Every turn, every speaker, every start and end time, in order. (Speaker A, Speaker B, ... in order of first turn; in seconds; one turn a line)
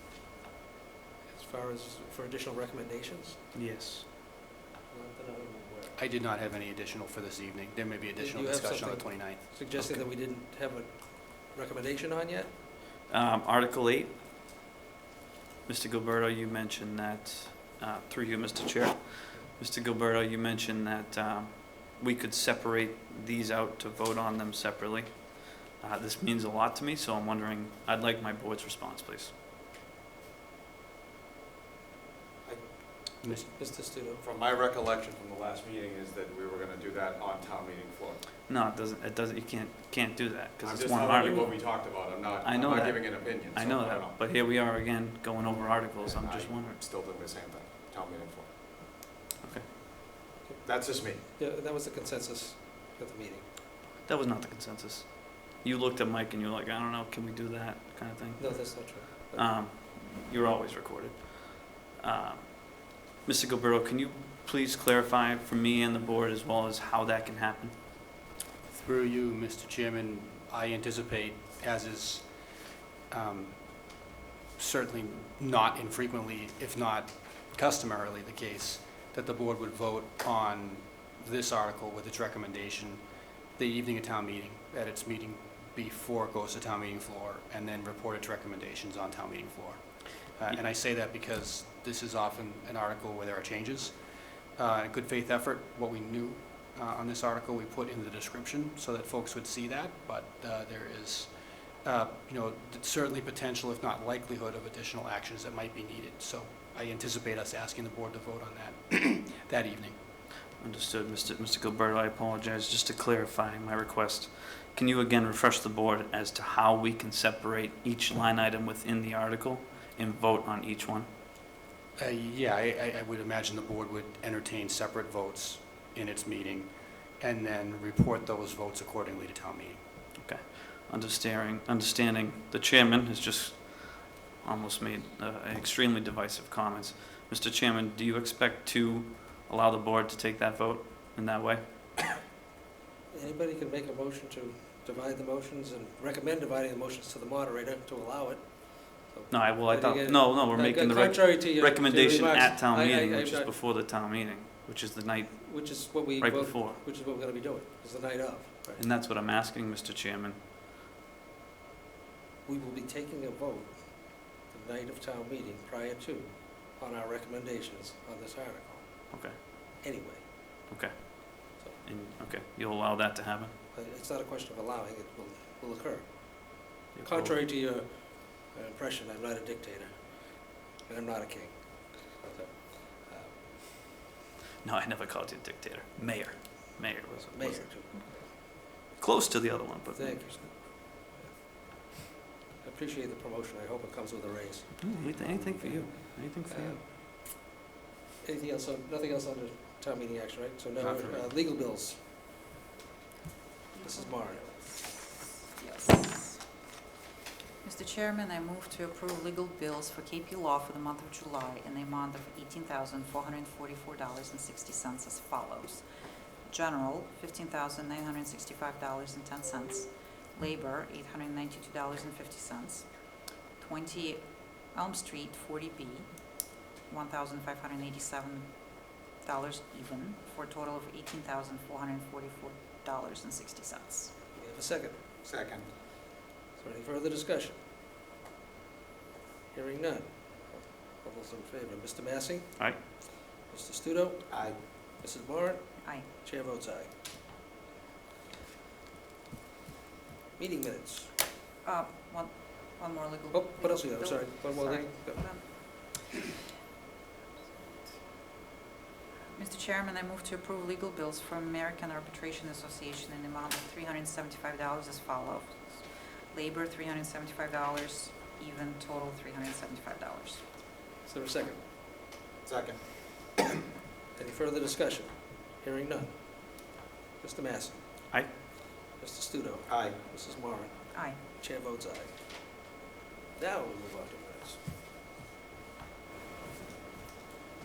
Speaker A: 1.3-3.4
Speaker B: 3.5-4.1
Speaker A: 4.9-6.0
Speaker C: 6.0-10.1
Speaker A: 8.2-12.5
Speaker B: 13.1-14.1
Speaker B: 15.7-29.3
Speaker D: 32.5-33.1
Speaker C: 33.2-33.5
Speaker A: 33.4-34.2
Speaker D: 34.2-38.2
Speaker B: 38.5-46.8
Speaker D: 40.6-44.1
Speaker D: 46.0-48.5
Speaker D: 50.6-51.2
Speaker A: 51.2-53.5
Speaker B: 54.0-67.8
Speaker A: 58.4-59.5
Speaker C: 68.7-72.3
Speaker C: 73.1-73.6
Speaker C: 74.6-83.0
Speaker C: 83.6-89.8
Speaker C: 90.4-94.0
Speaker C: 94.6-101.3
Speaker C: 101.8-110.0
Speaker B: 110.6-121.1
Speaker C: 122.0-129.8
Speaker B: 130.2-141.6
Speaker A: 143.1-153.5
Speaker B: 149.3-156.8
Speaker A: 155.4-158.8
Speaker B: 158.8-160.4
Speaker A: 162.4-169.0
Speaker B: 169.1-169.4
Speaker A: 169.8-170.3
Speaker B: 170.7-173.5
Speaker A: 173.7-183.4
Speaker B: 176.9-177.3
Speaker B: 184.6-187.7
Speaker A: 187.1-188.3
Speaker B: 188.9-190.5
Speaker A: 189.9-191.3
Speaker A: 192.6-194.9
Speaker B: 194.8-196.8
Speaker A: 195.8-196.8
Speaker A: 198.2-202.0
Speaker C: 200.8-201.3
Speaker E: 203.7-204.8
Speaker A: 203.8-204.8
Speaker E: 205.4-206.4
Speaker E: 207.6-215.8
Speaker E: 216.4-234.2
Speaker A: 234.3-235.2
Speaker D: 235.2-235.7
Speaker A: 236.6-237.6
Speaker A: 239.5-242.9
Speaker A: 243.4-246.9
Speaker D: 244.3-244.6
Speaker E: 245.8-246.1
Speaker A: 250.4-251.1
Speaker E: 251.6-256.4
Speaker A: 253.3-255.8
Speaker E: 259.3-270.4
Speaker A: 271.1-271.6
Speaker D: 272.4-273.3
Speaker A: 274.1-277.8
Speaker A: 279.0-282.1
Speaker D: 279.7-280.0
Speaker E: 280.9-281.2
Speaker A: 283.4-284.6